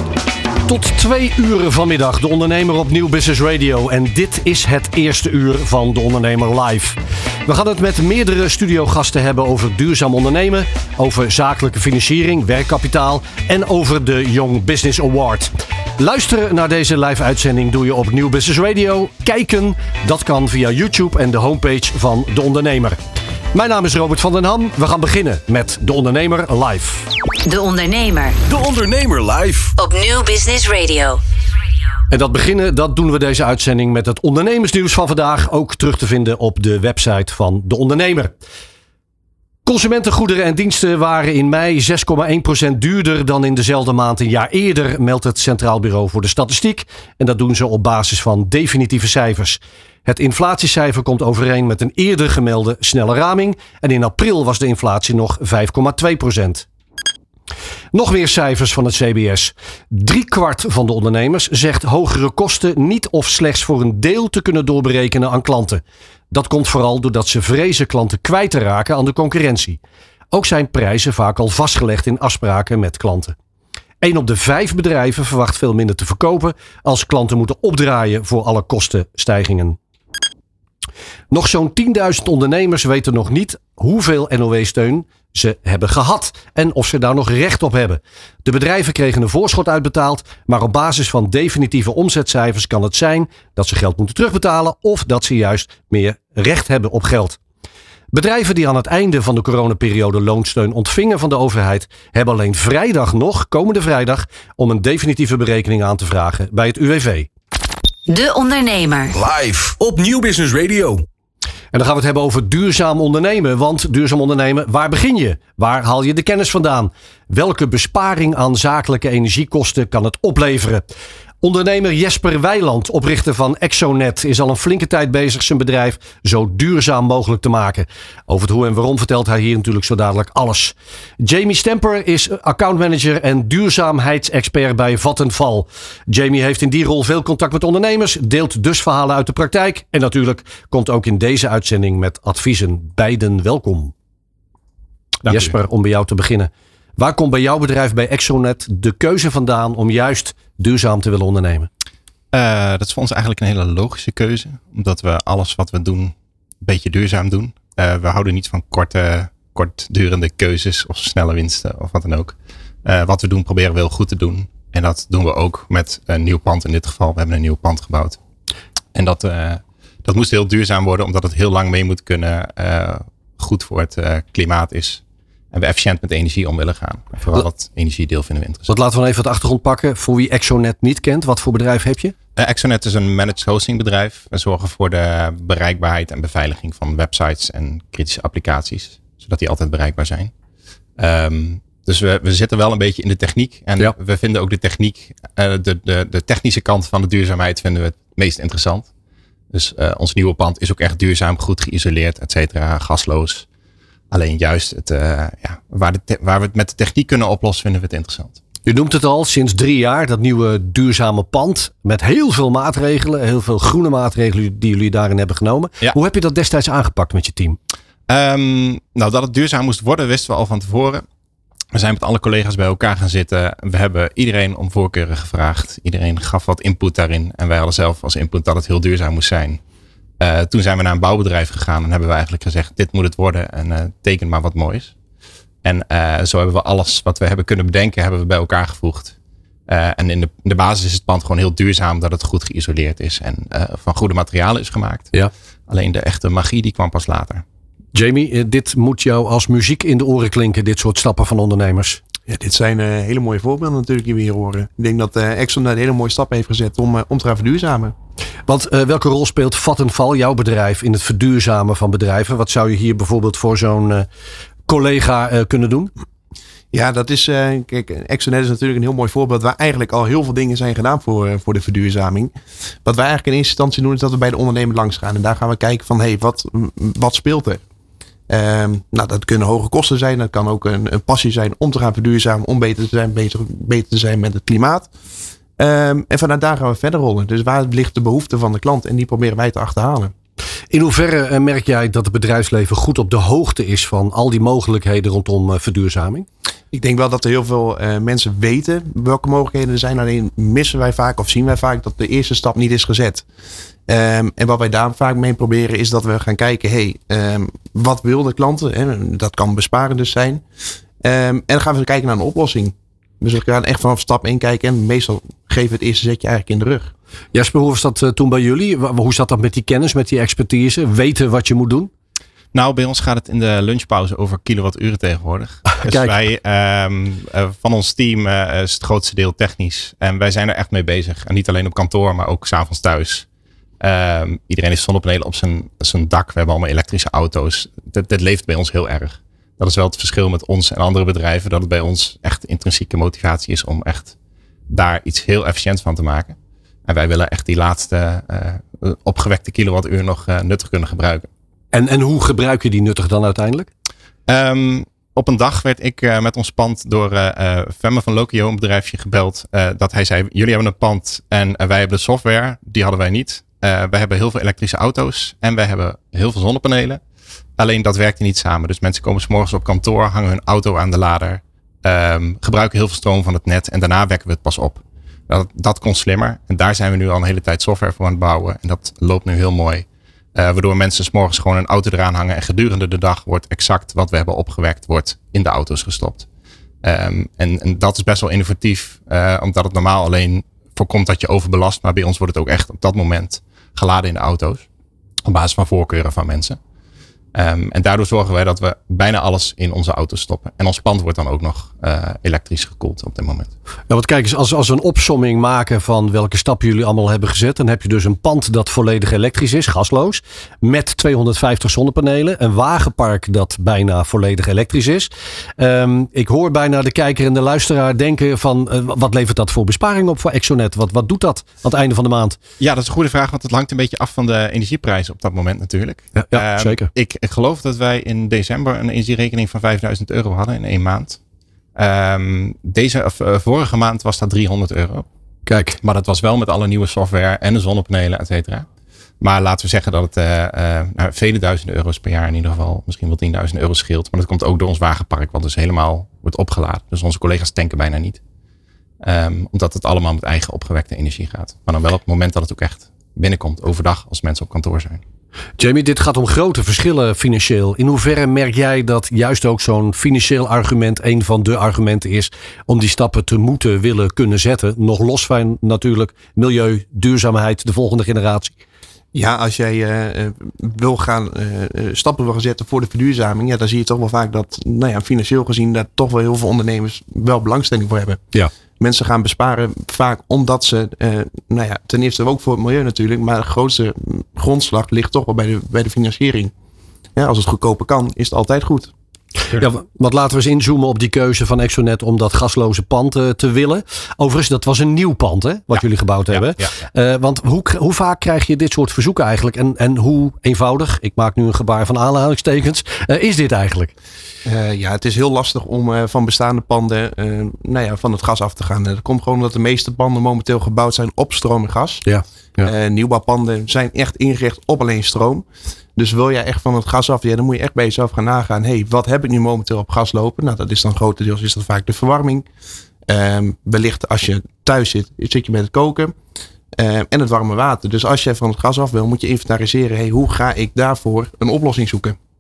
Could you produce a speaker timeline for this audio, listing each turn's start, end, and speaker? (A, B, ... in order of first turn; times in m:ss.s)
0:00.7-0:23.0 A
0:23.5-0:27.1 A
0:27.4-0:28.4 B
0:28.4-0:29.8 C
0:29.8-0:31.2 B
0:32.1-0:38.3 A
0:39.7-0:56.7 A
0:57.9-1:09.8 A
1:10.3-1:13.4 A
1:14.0-1:19.8 A
1:21.3-1:37.4 A
1:38.1-1:47.3 A
1:48.1-1:49.2 B
1:49.1-1:51.1 C
1:51.7-2:23.9 A
2:25.2-2:31.7 A
2:32.3-2:48.2 D
2:49.0-2:58.7 D
2:58.7-3:02.2 A
3:02.4-3:10.3 D
3:11.0-3:18.9 D
3:19.5-3:23.5 D
3:24.1-3:28.4 D
3:28.7-3:37.6 A
3:38.1-3:41.0 D
3:41.7-3:49.6 D
3:50.2-3:54.9 D
3:55.6-3:59.2 D
3:59.7-4:05.1 D
4:05.7-4:07.4 D
4:07.9-4:12.0 A
4:12.3-4:18.0 E
4:18.5-4:24.1 A
4:24.7-4:25.9 A
4:26.7-4:37.6 E
4:38.3-4:44.9 E
4:45.6-4:50.1 E
4:50.7-4:56.3 A
4:56.7-5:03.3 E
5:03.9-5:10.4 E
5:11.0-5:16.9 E
5:17.3-5:21.9 A
5:22.5-5:33.3 D
5:25.8-5:26.1 A
5:33.8-5:44.1 D
5:44.7-5:46.4 D
5:46.9-5:51.3 D
5:51.7-5:53.7 A
5:54.3-6:07.0 D
6:07.6-6:26.3 D
6:26.8-6:34.6 D
6:35.2-6:36.6 D
6:37.4-6:43.5 D
6:43.9-7:02.4 A
7:02.6-7:11.2 D
7:06.2-7:06.9 A
7:11.8-7:15.1 D
7:15.5-7:15.8 A
7:15.8-7:18.7 D
7:19.2-7:28.2 D
7:29.0-7:35.0 D
7:35.6-7:48.6 A
7:49.1-7:58.2 E
7:58.8-8:06.5 E
8:07.2-8:08.9 E
8:09.5-8:23.9 A
8:16.3-8:16.7 D
8:24.4-8:32.0 E
8:32.1-8:32.7 A
8:32.6-8:42.5 E
8:43.1-8:46.1 E
8:46.7-8:52.2 E